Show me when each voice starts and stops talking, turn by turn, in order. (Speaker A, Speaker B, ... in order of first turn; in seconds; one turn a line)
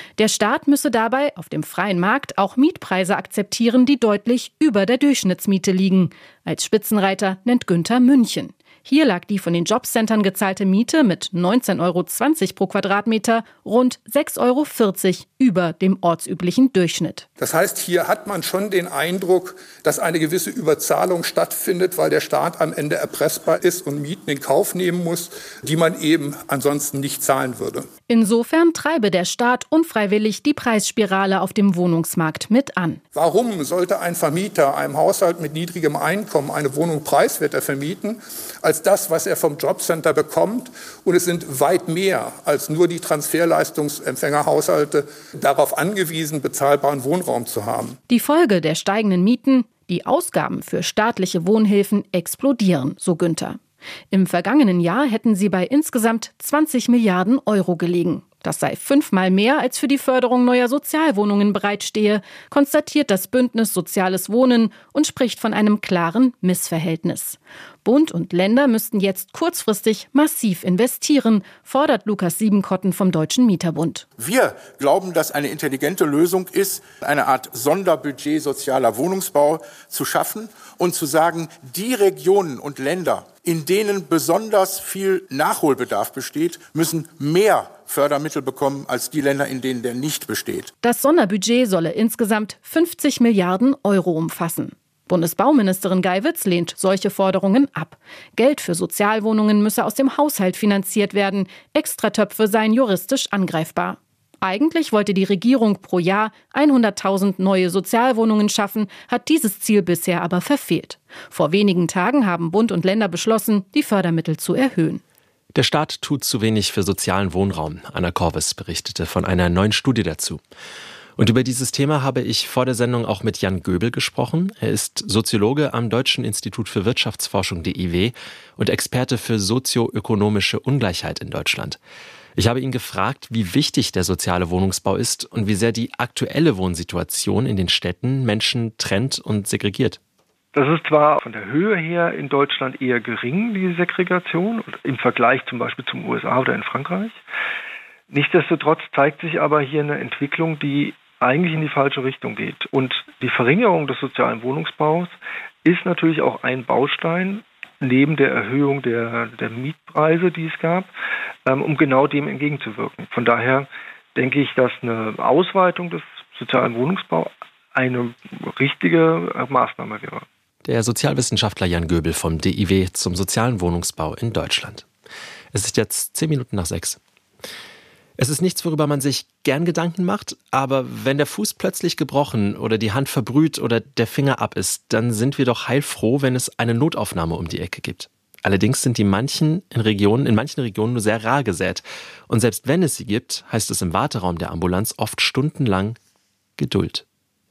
Speaker A: 0.2-17.2
Speaker B: 17.4-27.9
Speaker A: 28.1-33.0
Speaker B: 33.1-48.0
Speaker A: 48.1-53.6
Speaker A: 54.1-74.0
Speaker C: 74.2-90.7
Speaker A: 90.8-115.0
Speaker D: 115.5-120.4
Speaker D: 121.2-131.8
Speaker D: 132.3-140.0
Speaker E: 140.5-147.2
Speaker E: 148.1-160.9
Speaker E: 161.4-170.2
Speaker D: 170.6-174.8
Speaker D: 175.5-177.0
Speaker D: 178.2-196.0
Speaker D: 196.6-197.0